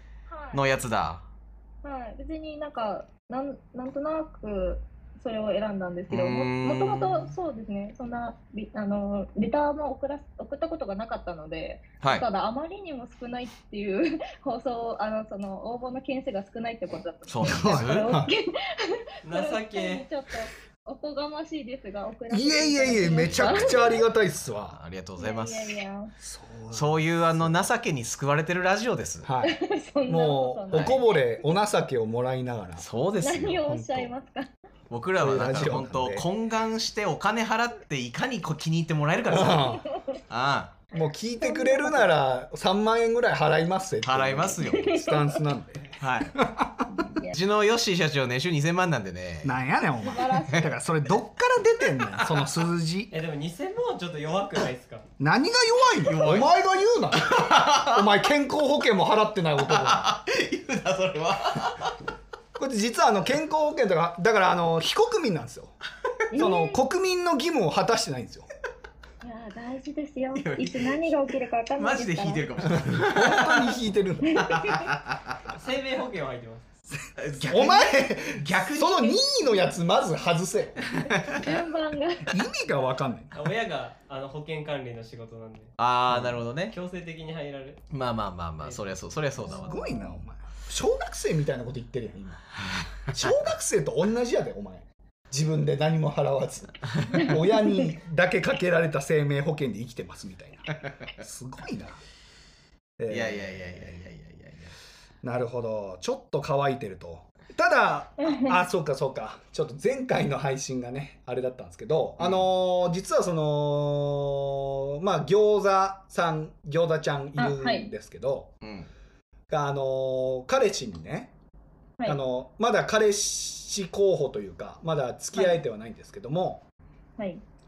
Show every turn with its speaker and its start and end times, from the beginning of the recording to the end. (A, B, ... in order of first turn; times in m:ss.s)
0:00.3-0:00.6 A
0:00.5-0:01.3 B
0:01.8-0:24.0 A
0:06.1-0:07.4 B
0:17.2-0:18.2 B
0:17.4-0:18.3 C
0:19.2-0:20.1 D
0:22.3-0:24.8 C
0:23.1-0:25.8 B
0:25.2-0:26.1 A
0:26.2-0:27.7 C
0:26.7-0:29.3 B
0:29.2-0:29.6 C
0:29.4-0:31.1 A
0:30.1-0:32.8 C
0:30.7-0:31.0 B
0:32.8-0:34.1 B
0:33.2-0:34.5 A
0:34.9-0:40.8 B
0:35.2-0:36.2 C
0:39.3-0:39.8 C
0:39.7-0:40.2 A
0:40.9-0:47.0 C
0:41.4-0:42.1 A
0:44.0-0:45.0 B
0:44.6-0:45.3 A
0:46.0-0:46.4 B
0:47.0-0:47.4 A
0:47.1-0:49.6 B
0:49.4-0:53.1 C
0:50.0-0:50.7 A
0:52.1-0:52.5 B
0:53.1-0:55.0 D
0:55.2-1:00.1 C
0:56.0-0:56.5 B
0:57.1-0:58.1 B
0:59.6-1:02.0 B
1:02.6-1:05.8 C
1:06.3-1:06.8 A
1:06.3-1:08.5 C
1:09.2-1:12.5 A
1:10.3-1:13.8 B
1:12.7-1:14.6 C
1:14.2-1:14.9 A
1:14.4-1:15.5 B
1:15.5-1:16.8 D
1:17.2-1:19.2 B
1:17.4-1:20.9 C
1:20.9-1:21.4 B
1:21.3-1:22.4 A
1:22.3-1:23.3 C
1:23.3-1:25.7 D
1:25.8-1:26.8 B
1:26.1-1:26.4 C
1:26.7-1:27.8 D
1:27.9-1:29.8 B
1:28.6-1:29.5 D
1:29.5-1:32.5 C
1:29.7-1:30.1 A
1:33.1-1:42.0 C
1:37.1-1:37.8 A
1:43.0-1:43.9 C
1:43.1-1:44.7 B
1:45.2-1:58.5 C
1:48.2-1:48.6 A
1:52.2-1:52.4 B
1:57.4-1:57.9 A
1:58.6-1:58.9 B
1:59.5-2:01.3 C
2:02.0-2:06.6 C